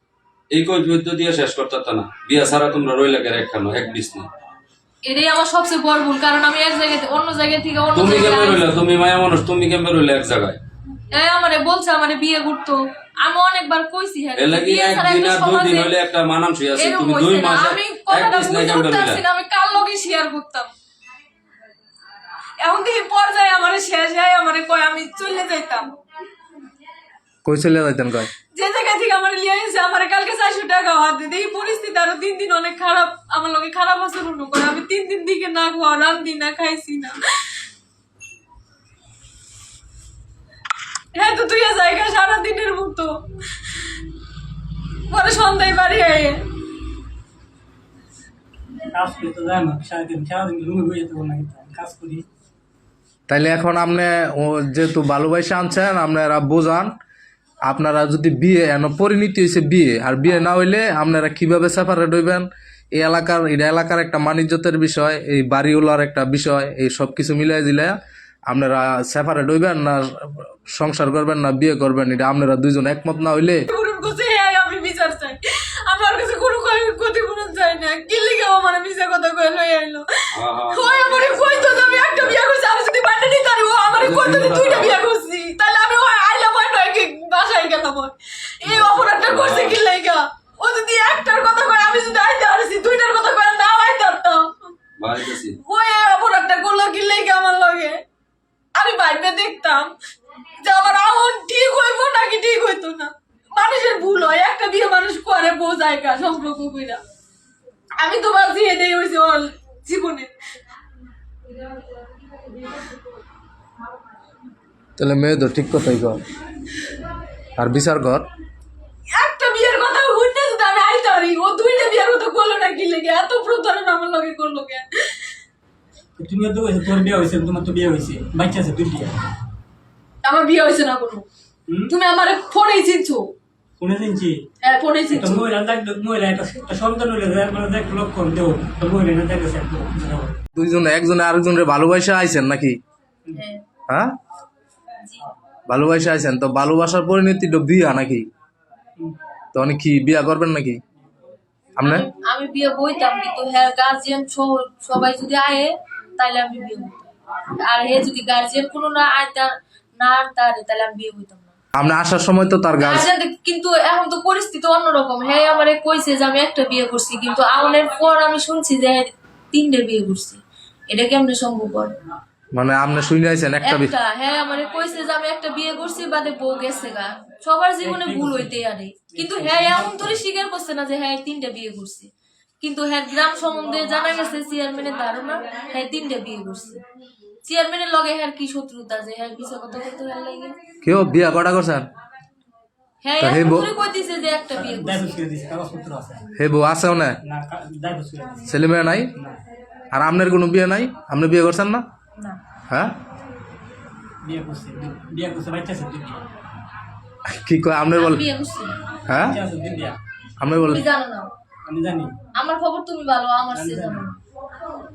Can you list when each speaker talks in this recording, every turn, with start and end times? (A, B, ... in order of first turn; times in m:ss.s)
0:00.5-0:04.3 A
0:05.0-0:08.8 B
0:07.9-0:10.6 A
0:11.1-0:15.9 B
0:14.4-0:19.2 A
0:16.7-0:20.7 B
0:22.6-0:25.9 B
0:27.4-0:28.3 C
0:28.5-0:37.2 B
0:41.1-0:43.2 B
0:45.1-0:46.4 B
0:48.9-0:52.2 D
0:53.3-0:56.9 C
0:57.6-1:08.0 C
1:08.5-1:13.6 C
1:13.7-1:34.7 B
1:20.3-1:22.4 A
1:24.0-1:25.0 A
1:28.6-1:29.8 A
1:35.0-1:35.6 A
1:35.6-1:38.0 B
1:38.7-1:39.9 B
1:40.6-1:47.0 B
1:48.0-1:50.3 B
1:55.0-1:56.2 C
1:57.6-1:58.3 C
1:59.1-2:05.2 B
2:06.2-2:09.2 D
2:10.2-2:11.2 B
2:11.7-2:11.9 D
2:11.9-2:13.3 B
2:13.8-2:14.4 D
2:14.6-2:15.5 B
2:15.1-2:20.4 D
2:20.5-2:22.8 C
2:23.3-2:23.6 B
2:23.9-2:24.1 C
2:25.0-2:25.3 B
2:25.7-2:28.2 C
2:29.5-2:30.8 C
2:31.8-2:32.0 C
2:31.8-2:41.5 B
2:41.7-2:43.1 C
2:42.8-2:51.9 B
2:52.5-2:53.9 C
2:53.6-3:02.1 B
2:57.8-2:58.6 D
2:59.1-3:00.2 D
3:02.6-3:06.8 B
3:07.4-3:10.6 B
3:10.8-3:11.9 C
3:13.0-3:15.1 B
3:13.2-3:13.7 C
3:14.5-3:16.2 D
3:16.4-3:17.2 C
3:17.2-3:18.5 D
3:18.5-3:19.1 C
3:19.9-3:21.8 C
3:22.7-3:22.9 C
3:24.2-3:26.2 D
3:27.3-3:28.3 C
3:27.9-3:28.8 B
3:29.1-3:29.4 C
3:29.1-3:30.0 D
3:30.4-3:30.9 C
3:30.6-3:31.3 B
3:31.6-3:32.1 D
3:32.3-3:34.1 B
3:33.5-3:34.0 D